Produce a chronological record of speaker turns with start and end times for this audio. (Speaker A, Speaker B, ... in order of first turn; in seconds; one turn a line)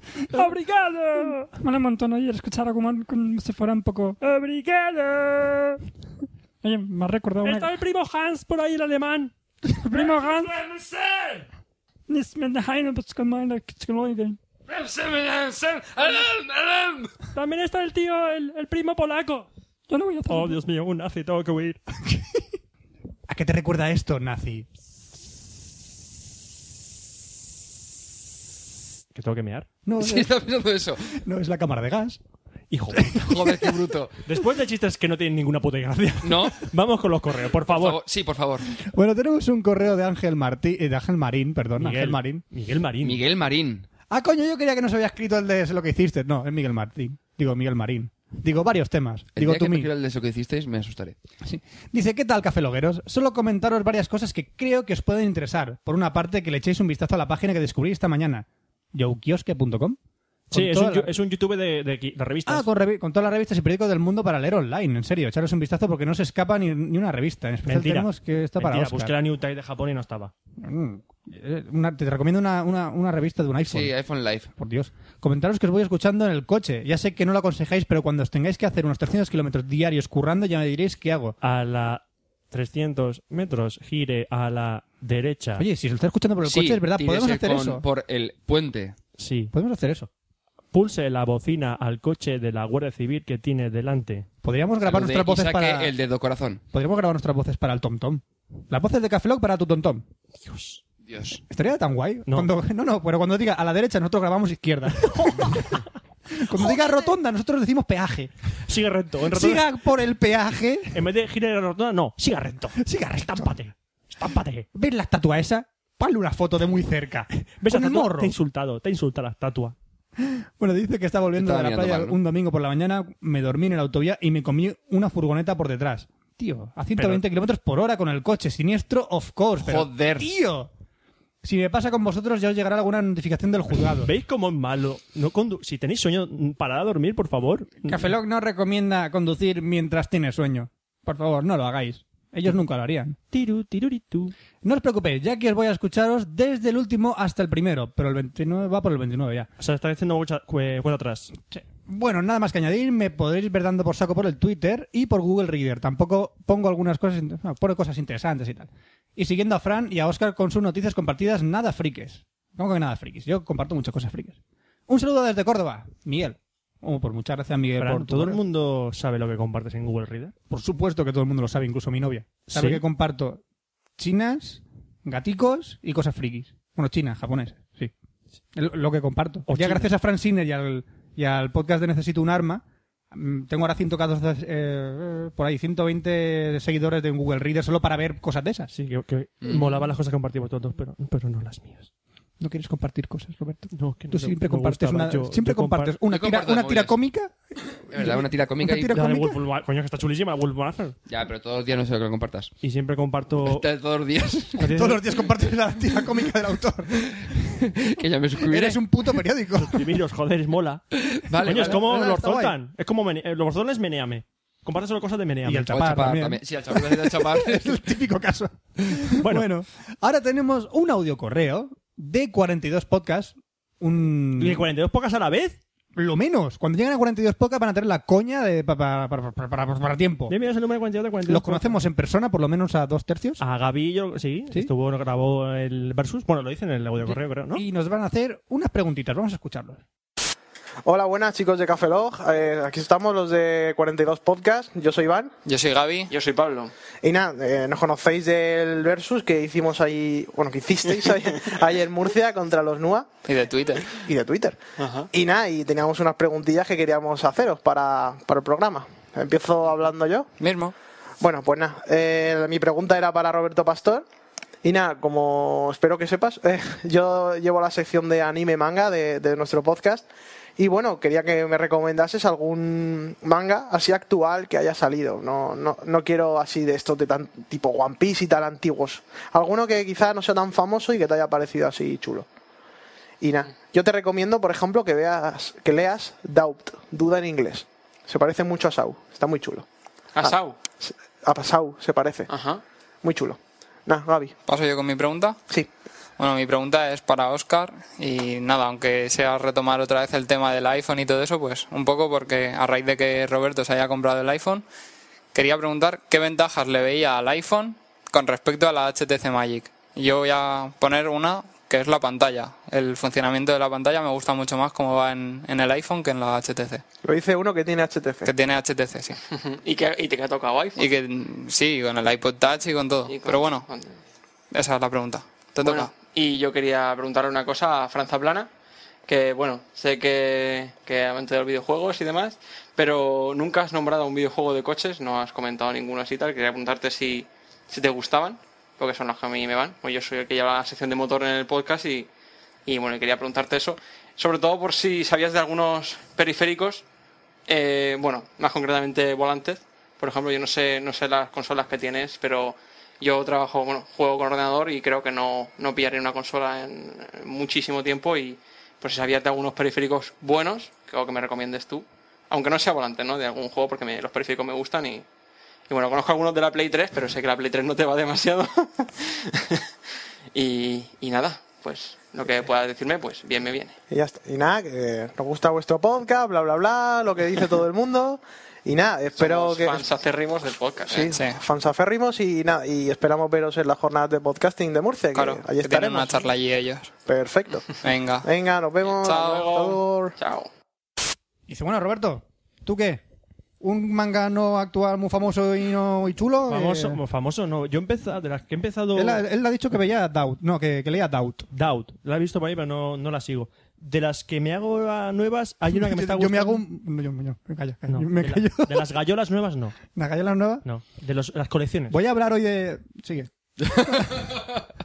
Speaker A: 0.3-5.8
Speaker B: 0.3-1.5
Speaker B: 4.5-5.0
Speaker A: 6.6-7.8
Speaker B: 7.4-9.3
Speaker A: 9.7-10.7
Speaker B: 9.9-10.2
Speaker A: 12.1-14.4
Speaker C: 14.7-15.8
Speaker C: 16.6-16.9
Speaker B: 17.3-19.4
Speaker A: 19.9-20.6
Speaker B: 20.3-21.8
Speaker D: 22.1-22.4
Speaker D: 23.3-24.6
Speaker B: 29.1-29.7
Speaker D: 29.8-30.4
Speaker C: 30.0-31.2
Speaker D: 31.1-32.2
Speaker B: 32.7-33.4
Speaker D: 32.9-33.9
Speaker C: 33.2-34.2
Speaker B: 34.2-38.0
Speaker C: 36.2-36.6
Speaker C: 37.7-38.7
Speaker D: 38.7-42.4
Speaker B: 41.8-43.2
Speaker C: 43.0-43.9
Speaker D: 44.1-49.9
Speaker C: 49.4-51.1
Speaker D: 51.4-60.0
Speaker B: 60.5-62.7
Speaker D: 60.5-61.1
Speaker D: 62.5-69.1
Speaker B: 67.6-70.3
Speaker D: 70.6-73.9
Speaker C: 73.7-74.5
Speaker D: 74.5-81.3
Speaker B: 81.4-85.6
Speaker D: 85.6-87.8
Speaker C: 86.4-89.0
Speaker B: 89.2-89.5
Speaker D: 89.5-90.1
Speaker B: 90.7-94.3
Speaker D: 94.4-95.9
Speaker C: 94.8-96.6
Speaker D: 96.7-100.0
Speaker B: 100.4-100.8
Speaker C: 101.0-101.4
Speaker D: 101.5-108.3
Speaker B: 102.3-102.5
Speaker B: 105.1-105.8
Speaker B: 106.6-106.9
Speaker B: 108.7-109.6
Speaker D: 109.3-111.0
Speaker B: 110.9-114.7
Speaker D: 112.8-113.5
Speaker D: 114.7-118.3
Speaker B: 117.4-119.7
Speaker D: 120.2-130.7
Speaker C: 121.4-122.2
Speaker C: 129.6-130.3
Speaker D: 131.4-134.1
Speaker B: 134.0-138.1
Speaker D: 137.9-143.2
Speaker B: 143.3-144.3
Speaker D: 144.6-149.5
Speaker B: 149.6-151.3
Speaker D: 151.4-168.4
Speaker B: 167.8-170.3
Speaker D: 170.5-173.4
Speaker B: 172.5-172.8
Speaker D: 174.0-177.9
Speaker D: 178.5-188.7
Speaker B: 179.5-179.9
Speaker B: 188.7-191.9
Speaker C: 189.4-189.8
Speaker D: 192.4-197.4
Speaker B: 193.7-196.0
Speaker C: 196.1-196.9
Speaker D: 197.9-199.4
Speaker C: 197.9-198.9
Speaker B: 198.9-200.9
Speaker C: 201.1-202.5
Speaker B: 202.6-203.6
Speaker C: 203.4-204.6
Speaker B: 204.6-205.0
Speaker D: 204.6-207.4
Speaker C: 207.0-208.8
Speaker D: 208.4-210.0
Speaker B: 209.6-210.8
Speaker C: 210.9-211.8
Speaker B: 211.4-215.8
Speaker D: 211.4-212.6
Speaker D: 215.4-224.7
Speaker C: 215.7-217.8
Speaker B: 219.2-219.5
Speaker B: 224.4-225.6
Speaker D: 225.9-230.3
Speaker B: 230.3-231.8
Speaker D: 231.3-233.4
Speaker B: 233.4-237.6
Speaker D: 237.1-239.8
Speaker E: 240.8-245.3
Speaker F: 245.4-246.1
Speaker G: 246.1-246.7
Speaker E: 247.0-253.1
Speaker F: 253.2-253.9
Speaker E: 254.0-254.6
Speaker G: 254.8-255.1
Speaker E: 255.1-260.3
Speaker F: 260.4-260.7
Speaker E: 261.2-264.0
Speaker E: 264.6-270.1
Speaker E: 270.6-282.2
Speaker E: 283.2-289.6
Speaker G: 290.1-290.6
Speaker E: 290.2-292.3
Speaker G: 292.3-292.6
Speaker E: 293.0-294.3
Speaker F: 294.4-295.4
Speaker F: 296.2-304.6
Speaker F: 305.3-316.8
Speaker E: 317.0-318.3
Speaker F: 318.2-319.2
Speaker G: 319.3-320.9
Speaker F: 320.8-323.7
Speaker G: 323.1-323.9
Speaker F: 324.5-325.9
Speaker G: 325.6-328.5
Speaker G: 329.1-342.1
Speaker G: 342.6-346.8
Speaker G: 347.5-365.0
Speaker G: 365.7-369.7
Speaker G: 370.3-373.8
Speaker E: 373.9-379.9
Speaker G: 379.2-381.1
Speaker E: 380.9-386.3
Speaker F: 381.0-381.4
Speaker F: 385.1-386.9
Speaker E: 387.1-387.7
Speaker F: 387.8-388.3
Speaker E: 388.2-390.2
Speaker F: 389.0-389.4
Speaker G: 389.1-390.5
Speaker D: 391.5-393.0
Speaker D: 393.6-397.0
Speaker B: 396.5-399.2
Speaker D: 398.9-401.5
Speaker B: 401.5-406.6
Speaker D: 405.7-408.9
Speaker B: 407.9-409.8
Speaker D: 409.9-410.6
Speaker B: 410.6-412.0
Speaker D: 411.9-414.3